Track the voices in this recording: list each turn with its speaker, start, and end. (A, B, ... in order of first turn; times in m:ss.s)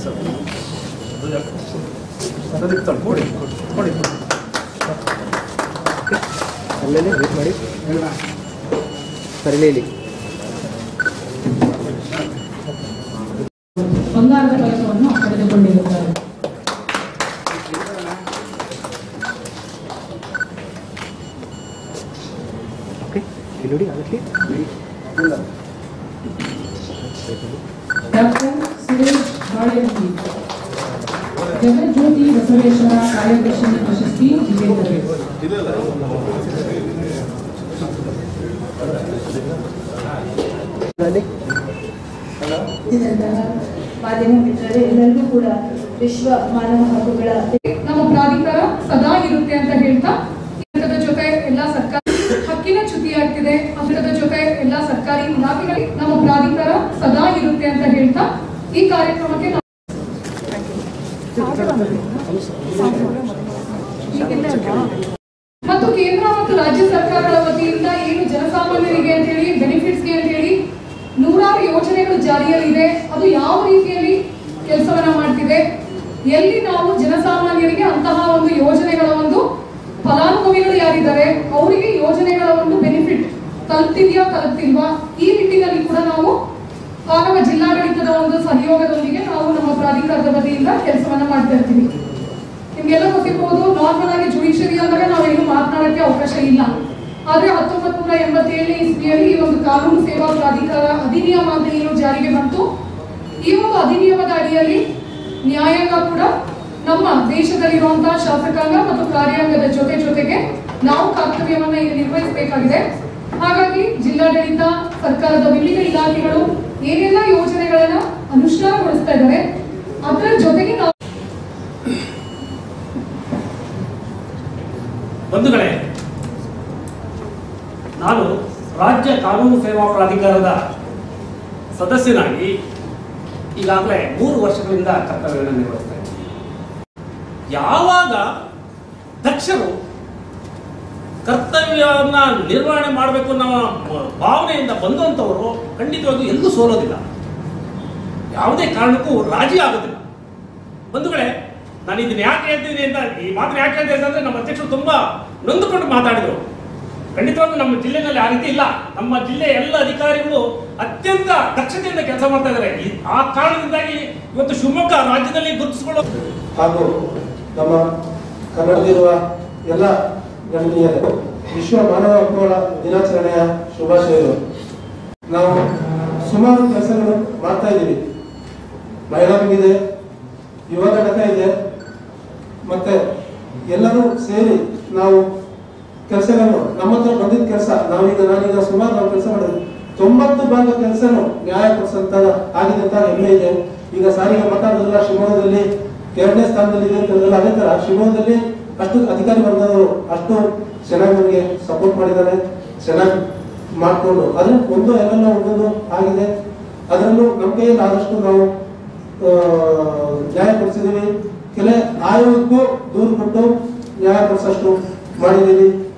0:02.7-0:04.0 A
0:06.8-0:07.6 B
0:09.4-0:09.9 B
0:14.0-0:16.2 C
0:23.0-0:24.6 B
0:27.2-0:27.6 B
0:28.1-0:30.2 C
0:31.5-0:35.1 C
0:42.9-0:47.6 D
0:47.7-0:59.6 E
1:01.4-1:02.2 D
1:04.1-1:04.4 E
1:04.6-1:04.9 D
1:05.6-1:10.6 E
1:11.2-1:15.6 E
1:16.3-1:19.4 E
1:20.0-1:26.3 E
1:27.1-1:31.9 E
1:32.8-1:36.7 E
1:37.3-1:42.6 E
1:43.4-1:44.8 E
1:45.4-1:46.3 E
1:46.8-1:52.9 E
1:53.4-1:59.4 E
2:00.0-2:00.9 E
2:05.3-2:05.8 A
2:08.0-2:10.6 A
2:11.8-2:12.5 A
2:13.6-2:16.1 A
2:17.5-2:18.2 A
2:19.2-2:19.7 A
2:21.2-2:27.0 A
2:28.4-2:30.0 A
2:30.9-2:31.3 A
2:31.9-2:36.4 A
2:37.2-2:46.0 A
2:46.6-2:46.9 F
2:47.5-2:47.8 F
2:48.5-2:49.9 F
2:50.5-2:54.4 F
2:55.3-2:55.6 F
2:56.2-2:58.0 F
2:59.1-2:59.8 F
3:00.7-3:01.5 F
3:02.7-3:03.0 F
3:03.7-3:05.2 F
3:06.1-3:23.2 F
3:23.8-3:26.3 F
3:26.9-3:28.5 F
3:29.2-3:35.7 F